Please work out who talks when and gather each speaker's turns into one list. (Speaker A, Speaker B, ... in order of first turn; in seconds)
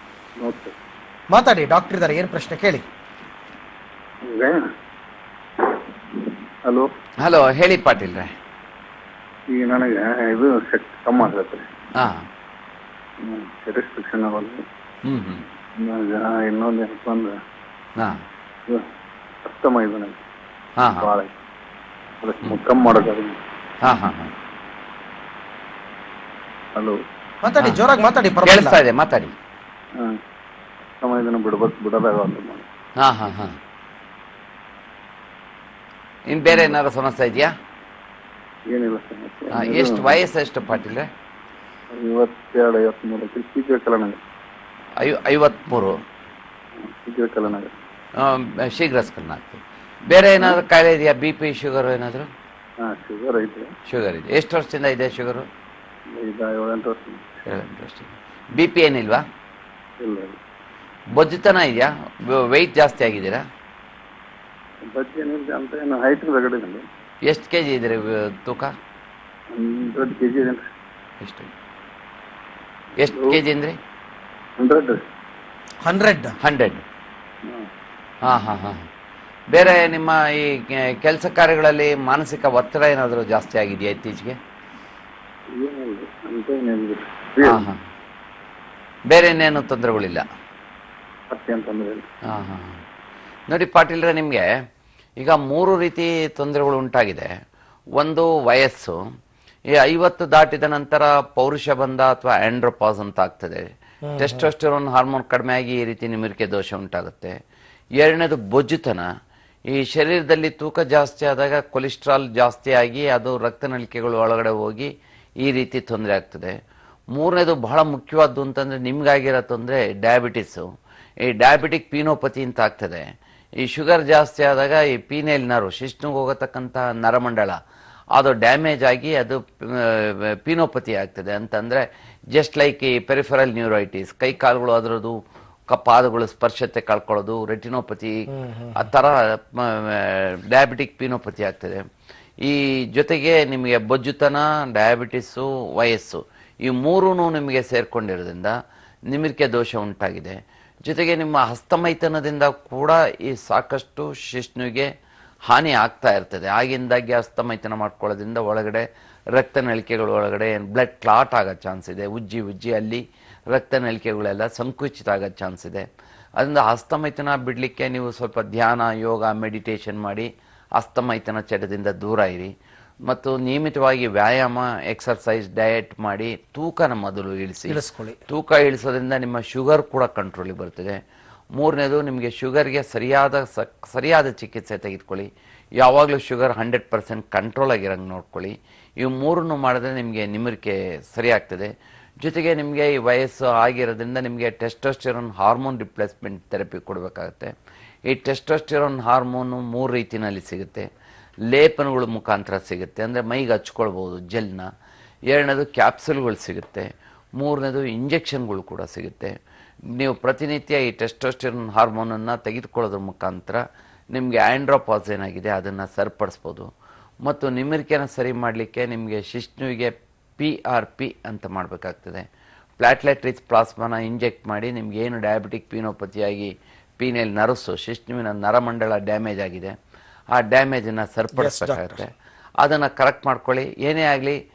Speaker A: 0.4-0.7, 4.3-4.6, 9.5-11.7, 13.2-14.6, 15.8-17.4, 19.4-20.2, 21.0-21.3, 22.2-23.4, 31.0-32.6, 38.7-40.2, 41.9-44.2, 46.8-47.7, 52.8-53.7, 56.1-57.4, 60.0-60.4, 64.9-66.8, 69.5-70.6, 73.1-73.4, 74.6-75.0, 85.6-87.6, 91.3-92.1
Speaker B: 1.3-2.9, 27.4-28.8, 75.8-76.3, 104.0-104.5, 138.3-138.8, 177.7-178.2, 231.3-232.0
Speaker C: 7.2-8.3, 11.9-12.2, 15.1-15.4, 20.8-21.1, 23.8-24.3, 28.4-29.3, 33.0-33.5, 36.3-37.5, 39.5-41.1, 45.0-45.9, 48.2-52.3, 53.9-55.5, 57.5-59.2, 61.1-63.4, 67.2-68.7, 71.2-71.5, 73.0-73.8, 76.4-76.8, 78.2-78.8, 79.5-84.4, 87.4-87.8, 89.1-90.2, 92.3-92.8, 93.5-94.5, 95.2-97.3, 98.0-99.0, 99.7-107.4, 108.0-109.1, 109.7-116.6, 117.1-120.7, 121.2-123.1, 123.6-127.6, 128.2-135.2, 135.7-141.8, 142.4-148.5, 149.1-154.9, 155.5-172.5, 173.1-181.0, 181.6-197.5, 198.1-200.9, 201.5-204.7, 205.3-209.3, 209.9-213.6, 214.1-216.7, 217.2-222.3, 222.8-229.7, 230.3-234.4